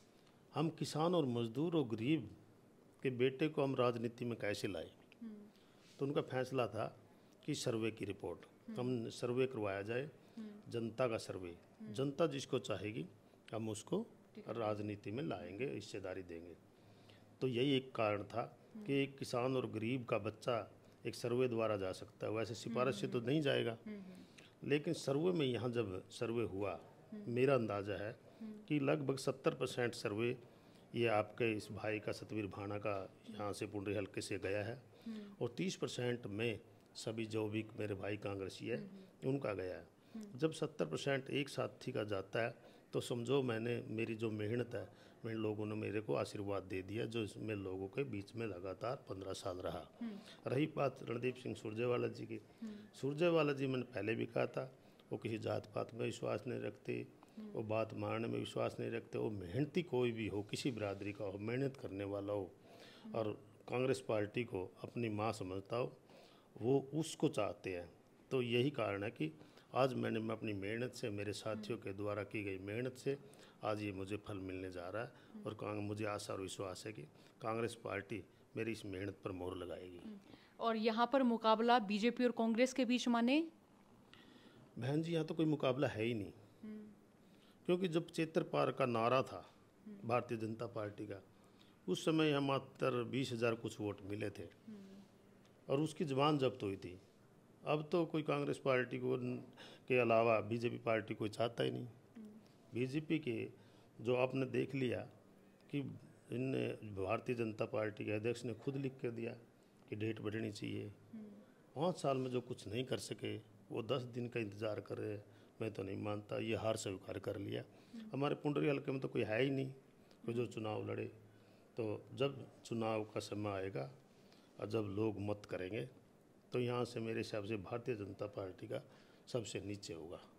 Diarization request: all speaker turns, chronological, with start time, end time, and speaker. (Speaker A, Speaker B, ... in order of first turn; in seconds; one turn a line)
Speaker A: 0.5-2.4
Speaker A: 3.0-5.0
Speaker A: 6.0-6.9
Speaker A: 7.4-16.6
Speaker A: 17.4-23.8
Speaker B: 22.7-23.2
Speaker B: 23.9-24.2
Speaker A: 24.6-30.4
Speaker A: 30.9-66.0
Speaker B: 35.1-35.4
Speaker A: 66.6-80.1
Speaker B: 80.2-83.5
Speaker A: 84.8-86.4
Speaker B: 86.7-86.9
Speaker A: 87.7-89.5
Speaker A: 90.0-91.2
Speaker A: 91.9-94.5
Speaker A: 95.7-97.0
Speaker A: 97.7-102.0
Speaker A: 102.7-105.1
Speaker A: 105.7-111.0
Speaker A: 111.7-121.1
Speaker A: 121.8-123.9
Speaker A: 124.6-125.9
Speaker A: 126.5-130.2